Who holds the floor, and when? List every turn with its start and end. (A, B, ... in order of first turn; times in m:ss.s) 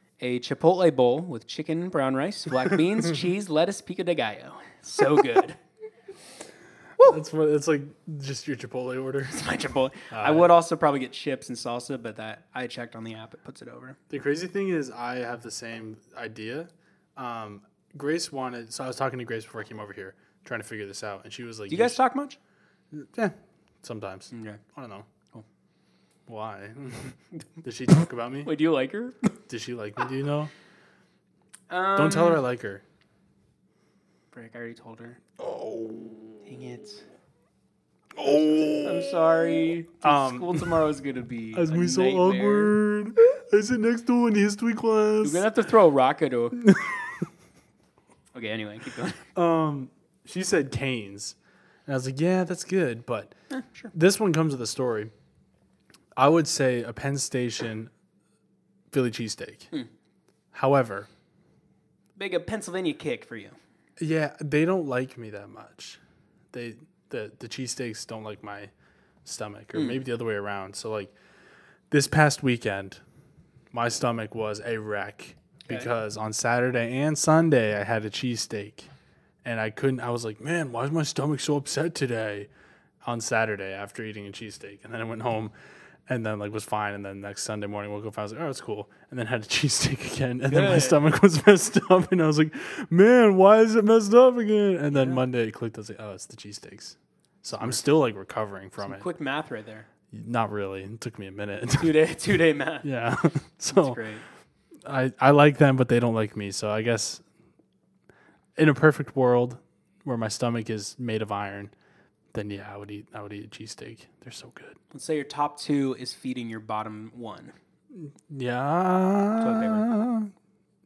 0:00.2-0:05.6 A
0:07.0-0:09.4 B
0:09.3-0:14.0 A
0:10.1-0:10.5 B
0:14.1-0:22.0 B
0:21.7-0:22.4 A
0:22.9-0:25.1 B
0:24.3-0:24.6 A
0:26.3-0:28.5 B
0:28.4-0:29.3 A
0:29.5-0:30.5 B
0:31.7-0:32.4 A
0:32.0-0:32.8 B
0:34.3-0:35.2 A
0:35.4-0:36.4 B
0:36.4-0:37.0 A
0:38.1-0:39.2 B
0:38.8-0:42.7 A
0:40.0-0:40.7 B
0:41.5-0:45.5 B
0:45.2-0:46.7 A
0:46.6-0:47.0 B
0:48.3-0:49.2 A
0:49.3-0:53.3 B
0:53.5-0:53.9 A
0:53.9-0:55.1 B
0:56.2-0:57.9 B
0:58.9-0:59.7 B
1:00.5-1:01.1 B
1:02.2-1:03.6 A
1:04.0-1:06.0 B
1:06.5-1:08.7 B
1:09.2-1:11.1 B
1:09.7-1:10.0 A
1:11.9-1:13.0 B
1:13.7-1:18.9 B
1:19.4-1:22.5 B
1:23.0-1:25.5 B
1:26.1-1:39.0 B
1:30.5-1:31.0 A
1:34.9-1:35.2 A
1:38.8-1:39.9 A
1:40.1-1:42.0 B
1:41.8-1:42.9 A
1:42.8-1:44.0 B
1:43.7-1:44.2 A
1:44.8-1:47.2 B
1:48.6-1:51.7 B
1:52.3-1:54.8 B
1:54.9-1:57.5 A
1:57.9-2:00.3 B
1:59.4-1:59.9 A